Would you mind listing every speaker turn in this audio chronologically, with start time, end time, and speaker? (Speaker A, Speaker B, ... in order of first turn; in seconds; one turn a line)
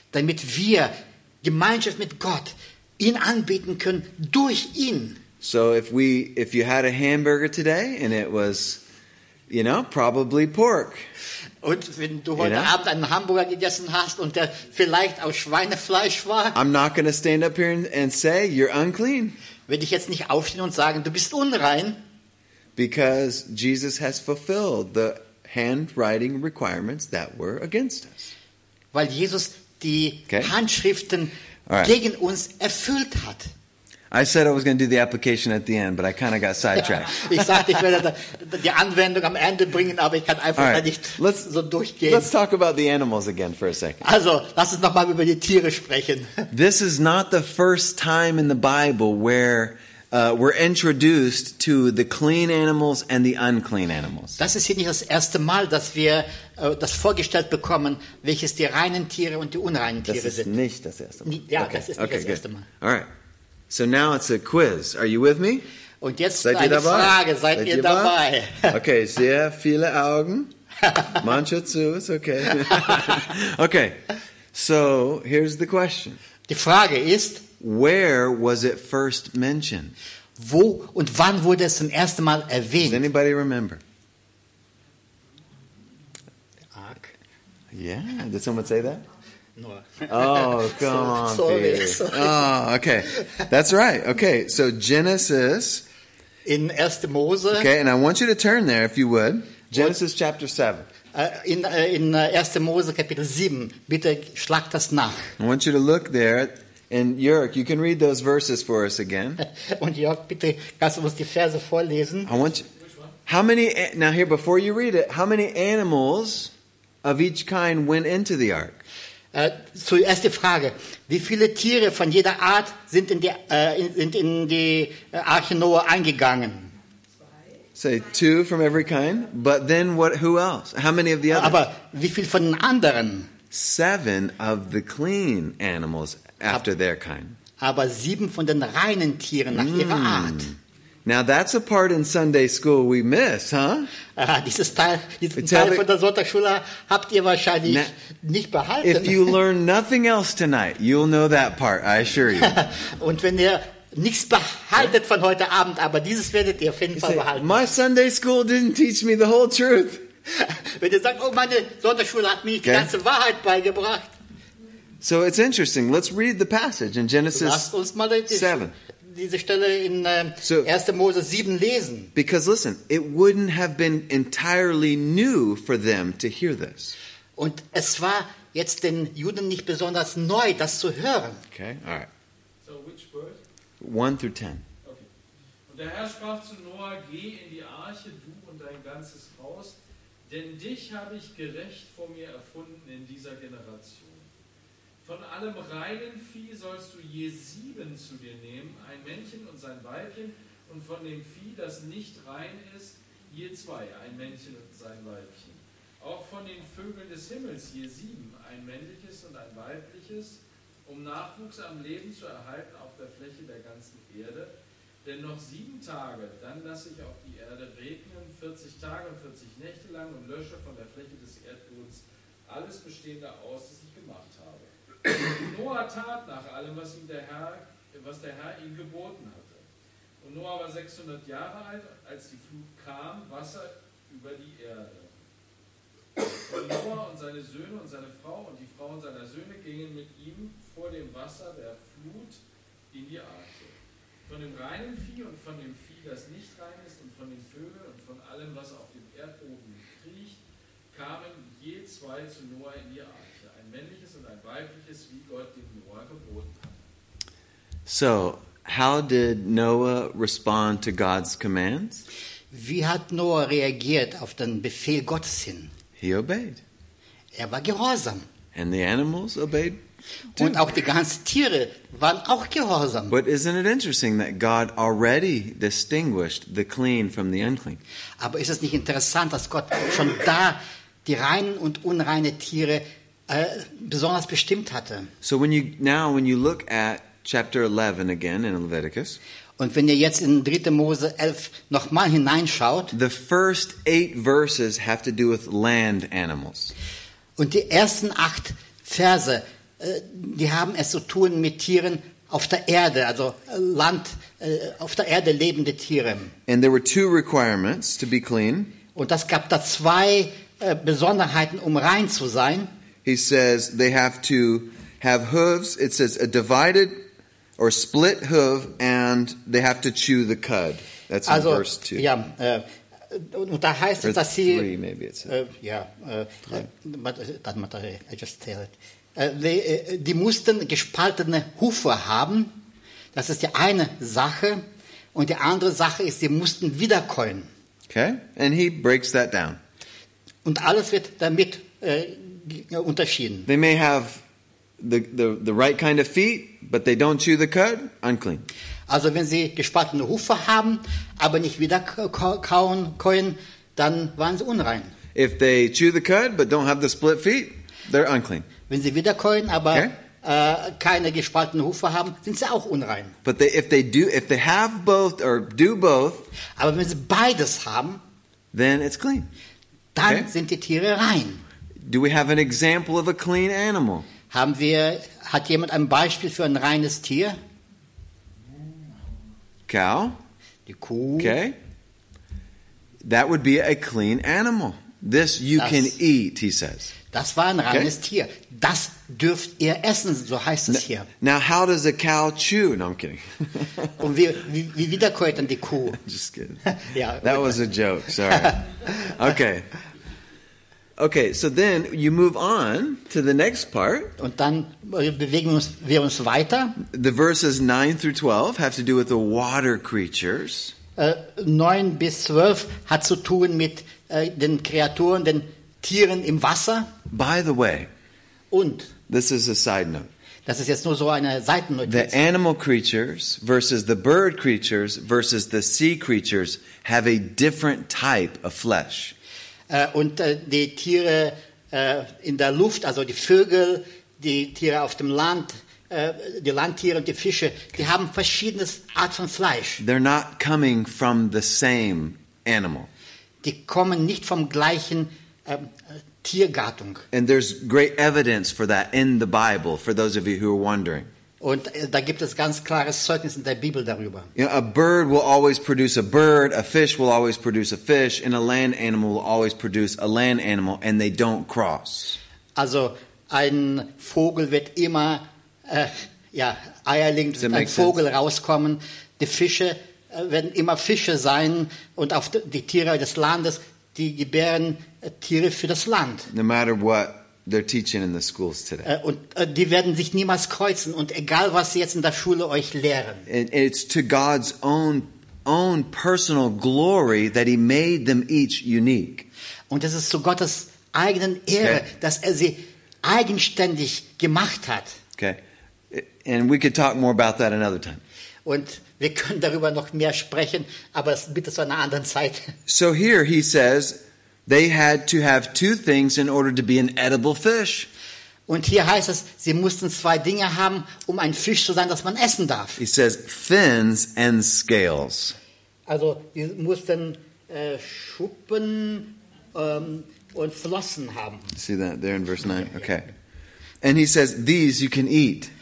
Speaker A: 0.1-5.2
Speaker B: 5.4-8.8
Speaker B: 9.5-11.1
Speaker A: 11.6-16.6
Speaker B: 12.4-12.7
Speaker B: 16.6-19.4
Speaker A: 19.7-22.0
Speaker B: 22.8-28.3
Speaker A: 28.9-33.5
Speaker B: 31.7-31.9
Speaker B: 34.1-37.7
Speaker A: 37.1-42.3
Speaker B: 40.6-41.5
Speaker B: 42.0-44.0
Speaker A: 44.0-46.5
Speaker B: 46.5-54.4
Speaker A: 54.4-60.5
Speaker B: 60.1-63.1
Speaker A: 61.3-62.7
Speaker B: 63.7-65.7
Speaker A: 66.0-68.8
Speaker B: 66.4-68.2
Speaker B: 68.7-70.5
Speaker A: 70.9-71.2
Speaker B: 71.2-74.0
Speaker B: 74.5-76.2
Speaker A: 76.5-77.5
Speaker B: 77.6-80.0
Speaker A: 80.4-83.0
Speaker B: 82.8-83.8
Speaker A: 86.7-87.2
Speaker B: 87.7-89.0
Speaker A: 89.6-92.5
Speaker B: 90.1-95.8
Speaker A: 93.2-93.5
Speaker A: 96.5-97.7
Speaker B: 97.5-100.9
Speaker A: 101.1-105.3
Speaker B: 105.4-109.4
Speaker A: 109.4-112.3
Speaker B: 112.3-112.7
Speaker C: 112.8-113.2
Speaker B: 113.3-116.5
Speaker B: 117.0-118.8
Speaker A: 119.3-126.7
Speaker B: 127.8-131.6
Speaker A: 131.3-133.3
Speaker B: 133.5-137.4
Speaker A: 137.6-140.5
Speaker B: 139.5-143.9
Speaker A: 144.2-149.4
Speaker B: 145.4-145.8
Speaker B: 147.7-147.9
Speaker B: 148.8-152.6
Speaker A: 152.4-157.6
Speaker B: 156.9-160.1
Speaker A: 160.3-164.1
Speaker B: 162.6-162.9
Speaker B: 165.0-167.7
Speaker A: 167.3-172.1
Speaker B: 168.3-168.8
Speaker B: 170.4-170.7
Speaker B: 172.2-177.0
Speaker A: 177.4-181.4
Speaker B: 181.5-182.1
Speaker C: 182.6-183.4
Speaker B: 183.8-184.7
Speaker C: 184.8-185.1
Speaker C: 185.7-194.3
Speaker C: 195.0-214.5
Speaker C: 215.0-229.6
Speaker C: 230.2-235.2
Speaker C: 236.4-242.4
Speaker C: 242.9-250.4
Speaker C: 250.9-256.9
Speaker B: 257.9-262.1
Speaker A: 262.5-265.7
Speaker B: 266.0-266.6
Speaker A: 267.4-268.3
Speaker B: 268.5-269.8
Speaker A: 270.4-273.1
Speaker B: 273.1-277.8
Speaker A: 278.2-285.1
Speaker B: 285.2-289.2
Speaker A: 289.6-292.9
Speaker B: 292.9-296.7
Speaker A: 297.4-306.4
Speaker B: 306.5-308.8
Speaker A: 308.9-312.7
Speaker B: 313.1-317.0
Speaker B: 317.6-322.1
Speaker A: 321.3-324.7
Speaker B: 324.0-325.3
Speaker A: 325.3-332.6
Speaker A: 333.1-337.5
Speaker B: 337.9-339.6
Speaker A: 340.4-343.5
Speaker B: 343.5-344.2
Speaker B: 344.8-348.5
Speaker A: 348.9-354.9
Speaker B: 355.1-358.5
Speaker A: 358.7-363.2
Speaker B: 363.2-366.3
Speaker A: 366.6-368.0
Speaker B: 368.5-369.3
Speaker A: 369.9-371.4
Speaker B: 371.8-374.1
Speaker A: 374.3-377.4
Speaker B: 379.7-380.2
Speaker A: 380.7-381.4
Speaker B: 381.2-381.6
Speaker B: 383.0-386.9
Speaker A: 385.6-386.0
Speaker A: 387.1-391.1
Speaker B: 390.7-393.9
Speaker A: 394.0-396.0
Speaker B: 395.9-396.6
Speaker A: 396.7-397.6
Speaker B: 397.2-399.7
Speaker A: 398.3-398.6
Speaker B: 401.0-404.1
Speaker A: 404.2-406.8
Speaker B: 406.8-410.7
Speaker A: 411.0-416.9
Speaker B: 417.1-417.9
Speaker A: 418.5-418.9
Speaker B: 419.1-420.1
Speaker A: 420.5-422.2
Speaker B: 421.9-429.1
Speaker A: 429.7-439.8
Speaker B: 439.8-442.9
Speaker A: 443.4-447.1
Speaker B: 447.1-451.1
Speaker A: 451.4-454.3
Speaker B: 454.4-462.2
Speaker A: 462.6-476.3
Speaker B: 467.4-468.0
Speaker B: 476.3-478.9
Speaker A: 478.8-483.3
Speaker B: 483.3-489.3
Speaker A: 489.7-495.0
Speaker B: 495.9-498.0
Speaker A: 498.5-502.6
Speaker B: 502.7-507.9
Speaker A: 508.5-512.8
Speaker B: 512.8-515.4
Speaker A: 515.9-521.5
Speaker B: 521.5-523.1
Speaker A: 522.6-522.9
Speaker B: 523.8-525.5